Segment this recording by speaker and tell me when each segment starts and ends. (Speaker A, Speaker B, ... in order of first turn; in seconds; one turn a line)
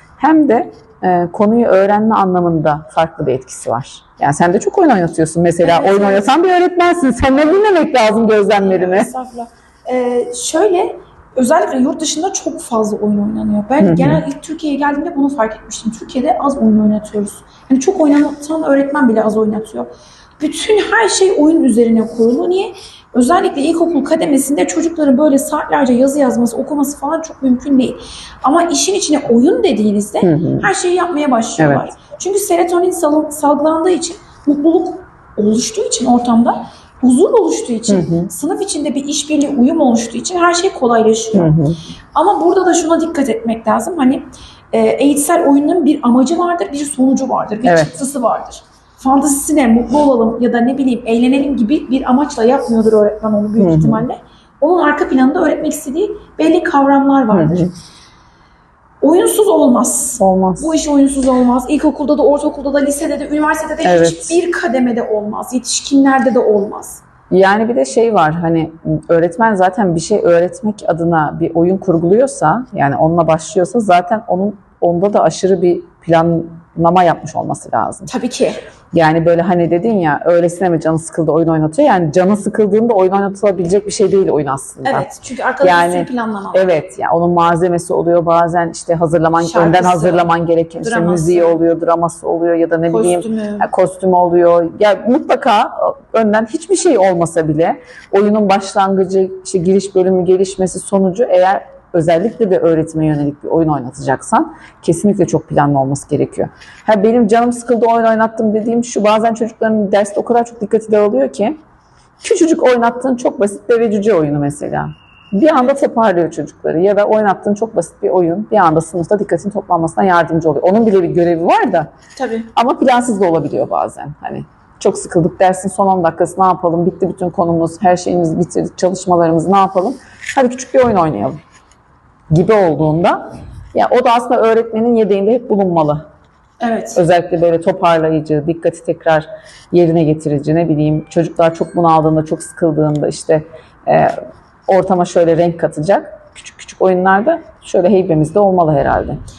Speaker A: 0.2-9.1
Speaker B: 5.6-6.3
Speaker B: 7.3-7.6
Speaker B: 8.5-41.5
Speaker A: 13.8-14.2
Speaker A: 30.2-30.7
Speaker A: 31.6-31.9
Speaker A: 37.9-38.3
Speaker A: 41.3-41.8
Speaker B: 42.1-57.6
Speaker A: 47.6-47.9
Speaker A: 53.6-54.0
Speaker A: 57.3-57.7
Speaker B: 59.0-67.0
Speaker A: 60.2-60.8
Speaker A: 63.8-64.4
Speaker A: 67.3-78.1
Speaker B: 78.1-78.6
Speaker A: 78.9-85.1
Speaker B: 84.8-86.7
Speaker A: 85.6-111.6
Speaker B: 89.4-90.3
Speaker B: 90.8-91.6
Speaker B: 92.9-93.7
Speaker A: 112.2-121.9
Speaker B: 122.2-122.5
Speaker A: 122.5-131.4
Speaker A: 132.3-133.2
Speaker A: 133.7-136.1
Speaker B: 136.6-137.0
Speaker A: 136.9-144.2
Speaker A: 144.7-149.2